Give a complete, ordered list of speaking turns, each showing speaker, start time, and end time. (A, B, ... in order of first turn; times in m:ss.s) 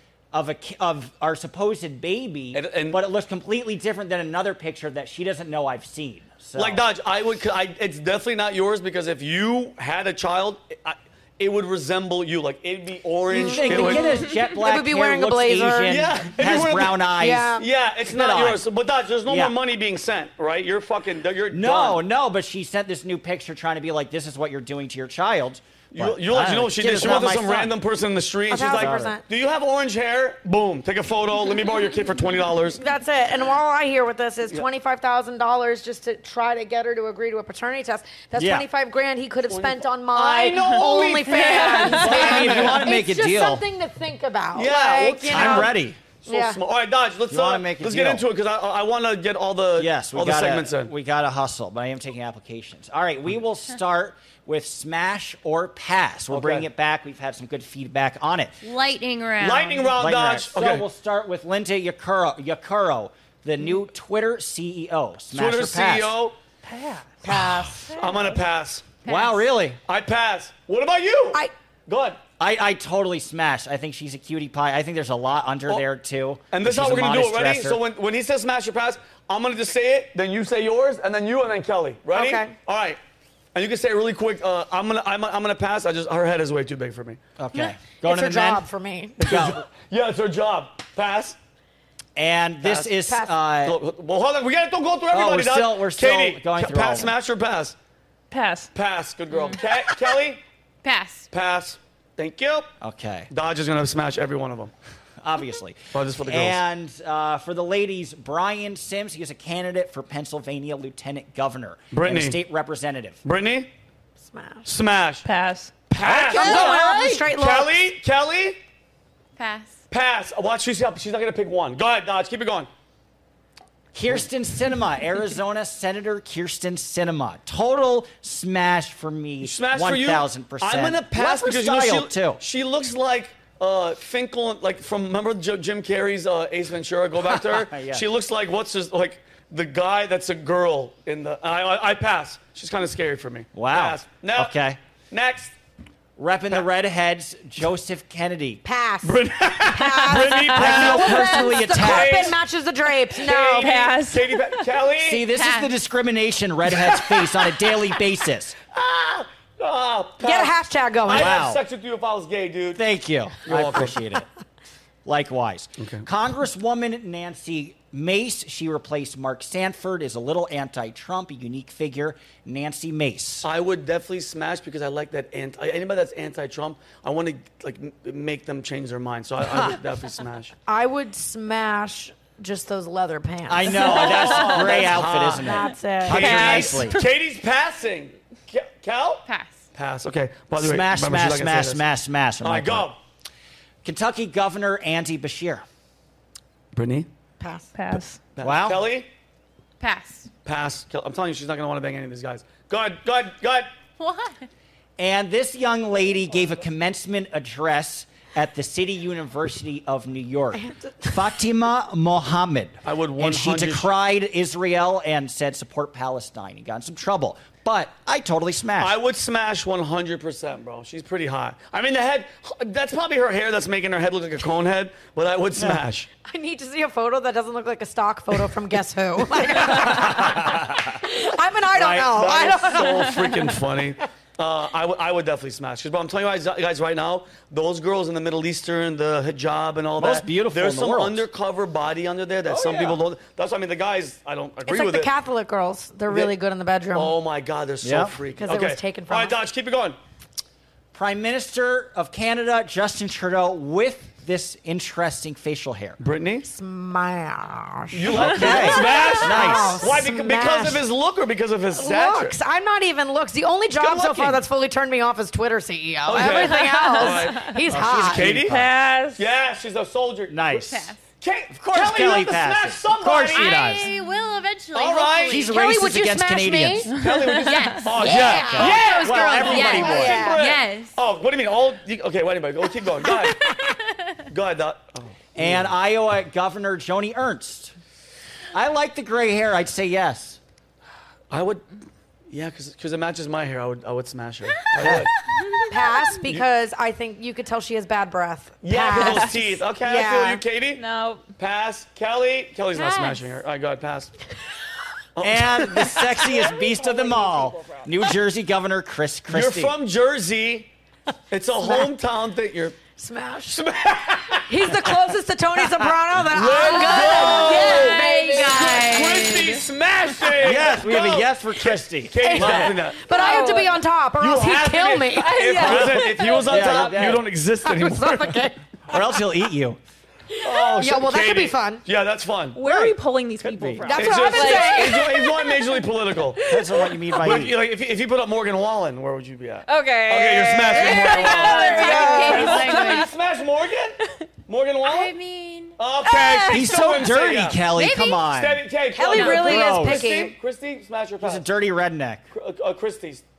0:00.3-0:06.8 A
0:02.5-0:03.0 B
0:06.6-0:14.2 B
0:13.3-0:16.0 C
0:13.3-0:18.6 A
0:15.9-0:22.0 B
0:17.2-0:17.6 C
0:19.2-0:19.5 A
0:21.5-0:27.7 A
0:25.9-0:32.8 B
0:28.5-0:29.2 C
0:28.7-0:29.2 A
0:32.8-0:45.7 C
0:38.4-0:38.6 A
0:39.5-0:42.9 B
0:41.3-0:42.4 D
0:41.9-0:43.6 A
0:44.5-0:50.9 B
0:45.3-0:46.0 A
0:46.2-0:46.6 C
0:47.3-0:48.2 A
0:49.8-0:58.6 A
0:56.3-0:56.7 B
0:58.6-0:59.9 E
0:59.4-1:00.8 B
1:00.0-1:06.1 A
1:05.3-1:06.3 B
1:06.6-1:08.4 D
1:07.2-1:07.7 A
1:07.2-1:07.9 C
1:08.0-1:08.9 B
1:09.0-1:09.4 E
1:09.0-1:09.8 A
1:09.9-1:12.2 B
1:12.4-1:17.8 A
1:16.5-1:23.0 B
1:22.1-1:22.5 C
1:23.5-1:27.2 B
1:27.4-1:28.6 A
1:27.5-1:29.2 C
1:29.2-1:29.6 A
1:29.2-1:31.4 B
1:32.2-1:33.8 A
1:32.6-1:32.9 B
1:33.0-1:33.3 C
1:33.6-1:37.8 B
1:35.1-1:37.1 A
1:38.3-1:38.7 D
1:38.7-1:40.4 B
1:39.3-1:39.6 E
1:40.8-1:41.3 E
1:41.3-1:42.7 B
1:42.8-1:43.3 A
1:43.3-1:44.7 B
1:45.2-1:53.2 A
1:45.9-1:46.6 B
1:51.9-1:52.4 B
1:53.2-1:53.7 B
1:54.2-1:54.7 C
1:54.6-1:55.2 B
1:55.2-1:55.8 D
1:55.9-1:58.6 B
1:56.0-1:57.1 A
1:56.2-1:57.9 C
1:56.4-1:56.8 E
1:59.4-1:59.8 E
1:59.9-2:02.7 B
2:03.9-2:12.4 A
2:09.4-2:24.5 B
2:17.3-2:18.0 A
2:23.5-2:24.8 A
2:25.1-2:25.5 B
2:26.2-2:28.6 A
2:28.6-2:33.7 C
2:29.0-2:32.4 B
2:30.4-2:32.3 A
2:33.1-2:35.3 B
2:33.6-2:34.7 D
2:35.0-2:38.6 A
2:35.3-2:35.7 E
2:36.7-2:37.3 B
2:38.7-2:40.5 B
2:40.2-2:41.4 C
2:41.1-2:42.8 B
2:41.1-2:41.6 A
2:42.7-2:44.2 A
2:43.4-2:44.0 B
2:45.0-2:53.4 A
2:45.8-2:46.0 B
2:53.4-3:00.5 B
3:00.7-3:06.7 C
3:03.5-3:07.0 A
3:03.8-3:05.5 B
3:06.0-3:11.8 B
3:06.1-3:07.0 D
3:09.2-3:09.6 E
3:10.6-3:12.9 A
3:12.4-3:13.0 B
3:13.8-3:15.6 A
3:16.7-3:17.1 B
3:17.4-3:17.7 C
3:17.7-3:18.2 D
3:18.4-3:19.1 B
3:18.4-3:18.8 A
3:19.8-3:20.3 E
3:20.4-3:23.7 B
3:24.0-3:24.5 E
3:25.0-3:38.9 A
3:30.5-3:31.2 C
3:32.8-3:33.9 B
3:38.8-3:46.1 B
3:46.2-3:53.5 C
3:49.6-3:51.0 A
3:51.8-3:52.1 A
3:51.8-4:05.1 B
4:00.0-4:01.2 A
4:02.5-4:03.0 A
4:04.6-4:07.1 C
4:06.9-4:10.0 B
4:07.8-4:08.2 A
4:08.4-4:09.4 C
4:10.9-4:16.0 A
4:16.0-4:16.5 B
4:16.4-4:20.8 C
4:17.9-4:22.4 B
4:18.1-4:19.9 A
4:21.7-4:28.3 C
4:23.8-4:24.4 B
4:26.0-4:28.6 B
4:26.4-4:27.3 D
4:27.7-4:28.7 A
4:28.4-4:29.2 D
4:29.2-4:33.7 B
4:30.3-4:30.9 A
4:30.5-4:31.0 E
4:31.5-4:33.9 A
4:33.3-4:35.6 E
4:34.7-4:35.4 B
4:35.3-4:37.0 A
4:35.3-4:36.9 C
4:36.9-4:43.5 B
4:37.3-4:41.0 E
4:37.9-4:40.4 C
4:38.0-4:40.3 A
4:43.3-4:44.2 E
4:44.3-4:45.7 B
4:45.3-4:47.7 A
4:48.5-4:50.4 A
4:51.3-4:51.6 B
4:52.3-4:55.1 B
4:54.8-4:55.1 A
4:55.7-5:00.4 C
4:58.6-5:00.8 B
5:00.8-5:01.2 D
5:01.4-5:04.1 B
5:02.7-5:03.3 E
5:05.2-5:06.3 B
5:05.2-5:09.7 A
5:06.3-5:07.8 D
5:09.3-5:10.7 B
5:11.3-5:12.8 B
5:12.9-5:13.6 C
5:13.5-5:14.9 B
5:14.4-5:18.8 C
5:16.3-5:18.1 B
5:16.6-5:19.6 E
5:16.8-5:19.6 D
5:18.6-5:23.0 B
5:20.4-5:22.7 A
5:22.2-5:25.6 C
5:23.0-5:23.8 D
5:24.2-5:28.4 B
5:25.2-5:27.0 D
5:25.6-5:27.2 A
5:27.6-5:28.6 C
5:28.9-5:29.8 A
5:30.3-5:31.8 C
5:30.4-5:32.6 B
5:32.6-5:35.8 D
5:32.6-5:33.9 A
5:33.8-5:35.1 C
5:33.9-5:36.4 B
5:36.4-5:37.3 D
5:36.4-5:37.6 A
5:37.2-5:45.1 B
5:39.7-5:43.1 D
5:40.7-5:43.1 E
5:41.1-5:42.8 C
5:44.8-5:45.8 E
5:45.8-5:47.6 B
5:46.0-5:46.7 D
5:46.5-5:50.1 A
5:47.7-5:48.3 E
5:48.3-5:51.4 B
5:48.9-5:50.4 C
5:49.1-5:49.5 E
5:51.2-5:52.2 A
5:52.3-5:53.2 B